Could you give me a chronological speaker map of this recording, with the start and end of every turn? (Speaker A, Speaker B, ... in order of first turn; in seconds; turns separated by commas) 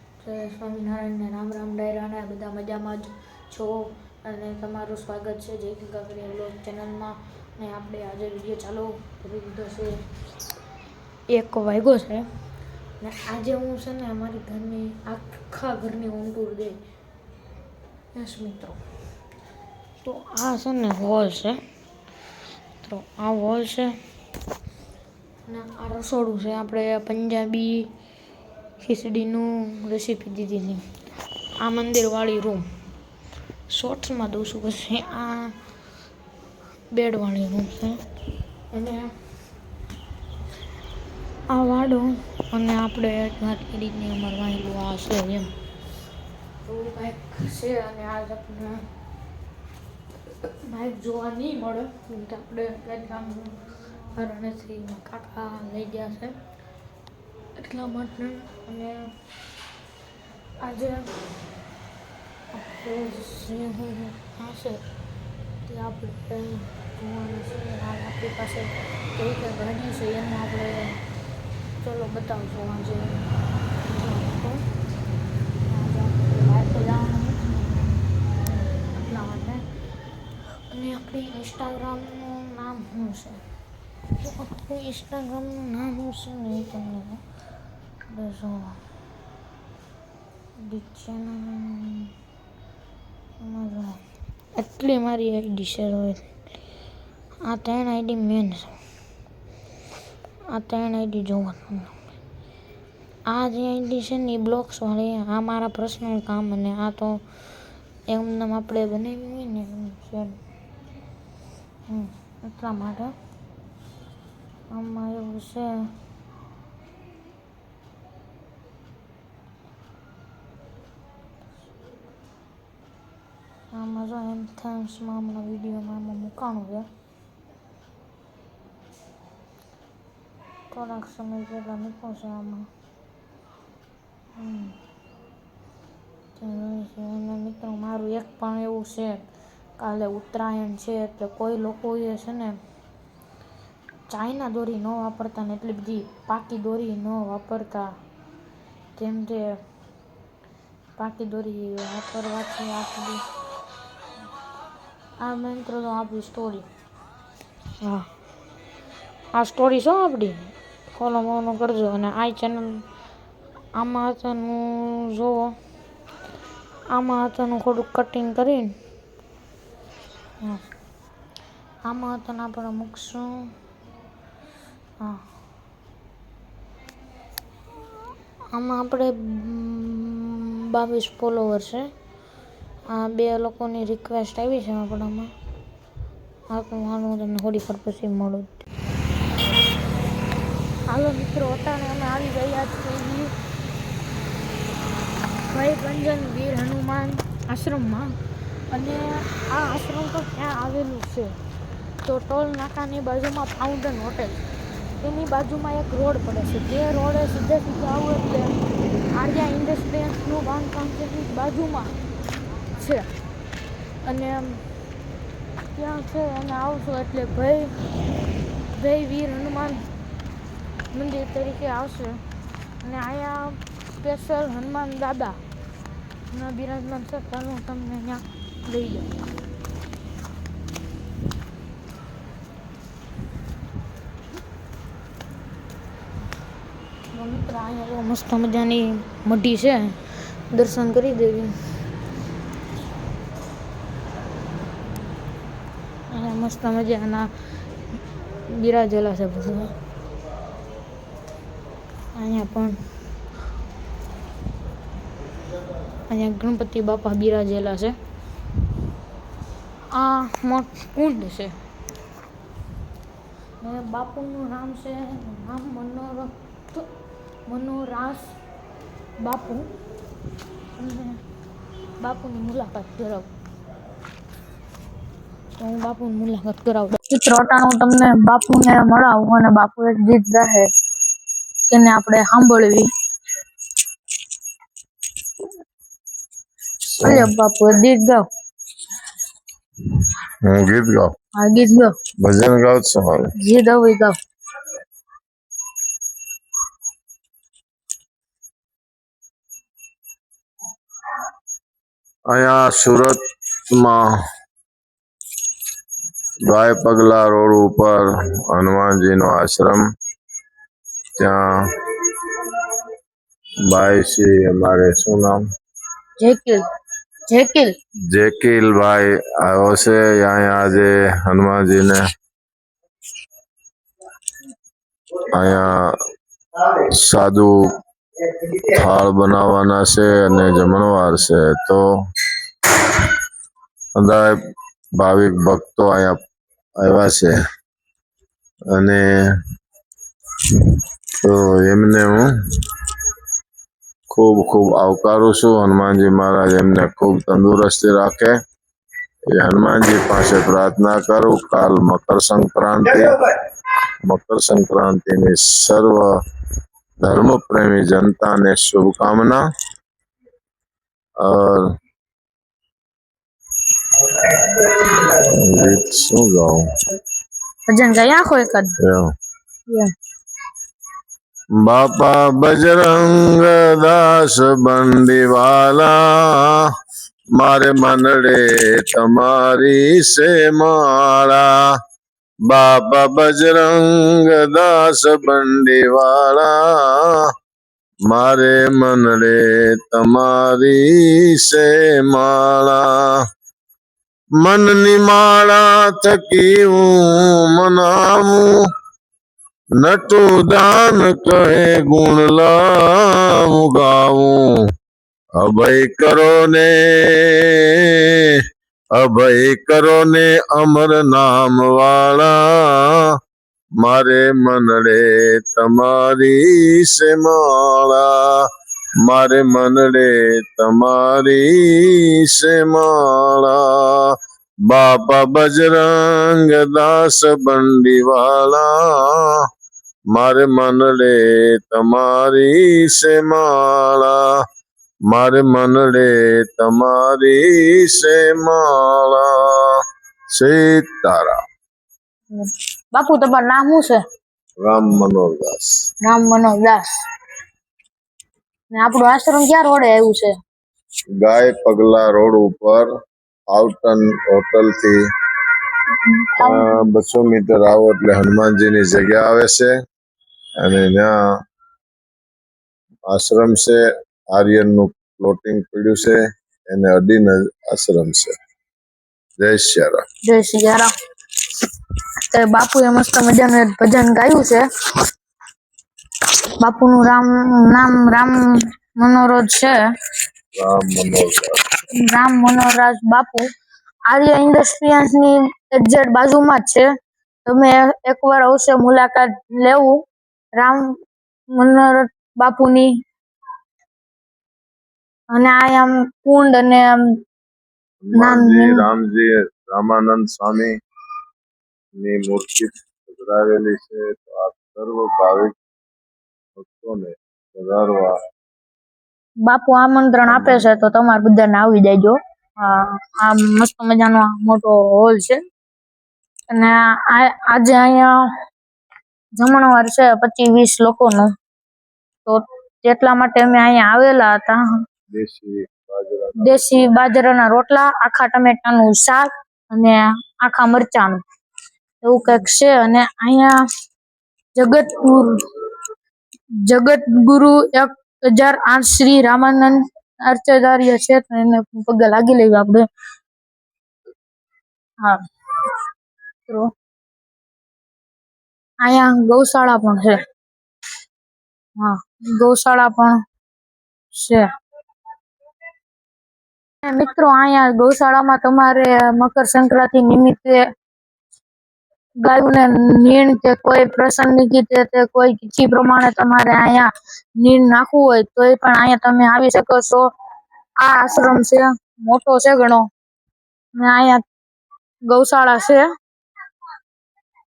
Speaker A: 0.2-10.0, Speaker A: 11.3-12.3, Speaker A: 13.0-16.8, Speaker A: 18.1-18.8, Speaker A: 20.0-21.6, Speaker A: 22.8-23.9, Speaker A: 25.5-27.9, Speaker A: 28.8-30.8, Speaker A: 31.6-32.6, Speaker A: 33.7-35.5, Speaker A: 36.9-38.0, Speaker A: 38.7-39.1, Speaker A: 41.5-45.5, Speaker A: 46.6-48.8, Speaker A: 50.6-53.5, Speaker A: 54.1-56.4, Speaker A: 57.5-59.1, Speaker A: 60.6-61.2, Speaker A: 62.5-64.8, Speaker A: 65.7-71.0, Speaker A: 71.8-73.2, Speaker A: 73.8-74.6, Speaker A: 75.7-79.6, Speaker A: 80.7-83.4, Speaker A: 84.2-87.2, Speaker A: 88.1-88.8, Speaker A: 90.6-92.1, Speaker A: 93.4-94.0, Speaker A: 94.5-96.2, Speaker A: 97.4-98.7, Speaker A: 100.5-101.9, Speaker A: 103.3-107.2, Speaker A: 108.1-110.4, Speaker A: 111.9-113.1, Speaker A: 114.7-115.7, Speaker A: 123.7-126.9, Speaker A: 130.7-132.7, Speaker A: 134.3-134.7, Speaker A: 136.3-139.2, Speaker A: 139.8-142.6, Speaker A: 144.1-147.9, Speaker A: 148.9-149.6, Speaker A: 151.0-153.2, Speaker A: 155.2-156.7, Speaker A: 157.8-158.1, Speaker A: 159.3-162.8, Speaker A: 163.8-165.6, Speaker A: 166.9-168.7, Speaker A: 171.8-173.3, Speaker A: 178.5-181.9, Speaker A: 182.9-185.3, Speaker A: 186.5-188.5, Speaker A: 190.9-193.3, Speaker A: 195.5-198.1, Speaker A: 198.7-201.3, Speaker A: 202.0-204.4, Speaker A: 205.0-208.5, Speaker A: 209.1-211.9, Speaker A: 212.7-213.1, Speaker A: 214.0-214.6, Speaker A: 215.7-217.8, Speaker A: 218.7-219.9, Speaker A: 220.9-222.2, Speaker A: 222.8-225.4, Speaker A: 226.3-229.2, Speaker A: 237.1-240.0, Speaker A: 240.5-241.5, Speaker A: 246.1-247.3, Speaker A: 248.5-249.7, Speaker A: 252.1-252.8, Speaker A: 256.1-257.9, Speaker A: 259.9-261.6, Speaker A: 263.6-266.9, Speaker A: 267.5-268.4, Speaker A: 269.2-269.7, Speaker A: 270.7-271.2, Speaker A: 272.0-273.3, Speaker A: 275.6-277.0, Speaker B: 277.1-280.7, Speaker B: 281.7-282.9, Speaker C: 286.9-287.3, Speaker B: 287.0-288.2, Speaker C: 290.4-291.1, Speaker B: 291.4-291.9, Speaker C: 292.2-293.3, Speaker B: 293.4-294.1, Speaker C: 302.3-303.2, Speaker C: 303.7-304.0, Speaker C: 306.4-309.8, Speaker C: 311.2-312.5, Speaker C: 313.7-315.4, Speaker B: 316.2-316.6, Speaker B: 317.3-317.7, Speaker C: 318.1-322.0, Speaker C: 325.2-325.9, Speaker C: 326.9-327.5, Speaker C: 328.6-331.8, Speaker C: 333.9-334.3, Speaker C: 335.0-336.2, Speaker C: 336.8-337.3, Speaker C: 338.7-339.0, Speaker C: 340.6-342.3, Speaker C: 344.1-348.3, Speaker C: 349.3-353.2, Speaker C: 354.1-356.1, Speaker C: 357.0-359.4, Speaker C: 361.2-361.7, Speaker C: 364.1-366.6, Speaker B: 367.7-368.7, Speaker C: 368.8-369.1, Speaker C: 371.6-376.6, Speaker C: 377.4-381.6, Speaker C: 382.5-387.2, Speaker C: 388.1-393.1, Speaker C: 394.4-398.6, Speaker C: 399.8-404.5, Speaker C: 405.4-408.4, Speaker C: 408.9-413.1, Speaker C: 413.8-418.5, Speaker C: 419.0-424.1, Speaker C: 424.7-429.3, Speaker C: 430.1-434.2, Speaker C: 435.1-439.8, Speaker C: 440.3-441.4, Speaker B: 442.3-444.0, Speaker C: 444.6-445.7, Speaker B: 446.0-446.9, Speaker B: 448.7-450.3, Speaker C: 451.2-452.9, Speaker C: 453.5-455.0, Speaker B: 456.1-456.8, Speaker C: 456.4-459.7, Speaker C: 460.6-461.1, Speaker C: 463.1-463.8, Speaker C: 464.3-466.2, Speaker C: 466.7-468.3, Speaker C: 469.4-470.0, Speaker B: 470.2-470.9, Speaker B: 472.3-474.6, Speaker B: 476.6-478.4, Speaker B: 479.0-479.7, Speaker C: 480.6-481.6, Speaker B: 482.0-483.4, Speaker B: 484.1-486.8, Speaker B: 487.4-490.0, Speaker B: 490.6-490.8, Speaker B: 491.6-492.9, Speaker B: 495.3-497.0, Speaker C: 498.0-500.7, Speaker B: 498.1-498.9, Speaker C: 502.0-505.5, Speaker C: 506.6-508.1, Speaker B: 509.4-515.4, Speaker C: 510.2-510.7, Speaker B: 516.5-518.1, Speaker B: 519.4-521.3, Speaker B: 522.2-524.6, Speaker C: 525.1-526.9, Speaker B: 526.4-531.2, Speaker B: 532.0-533.5, Speaker B: 534.5-535.4, Speaker B: 536.7-542.8, Speaker B: 548.8-550.2, Speaker B: 551.8-553.2, Speaker B: 554.1-554.4, Speaker B: 556.8-560.6, Speaker B: 562.2-566.9, Speaker B: 567.4-570.0, Speaker B: 570.8-572.9, Speaker B: 573.8-574.2, Speaker B: 575.1-575.8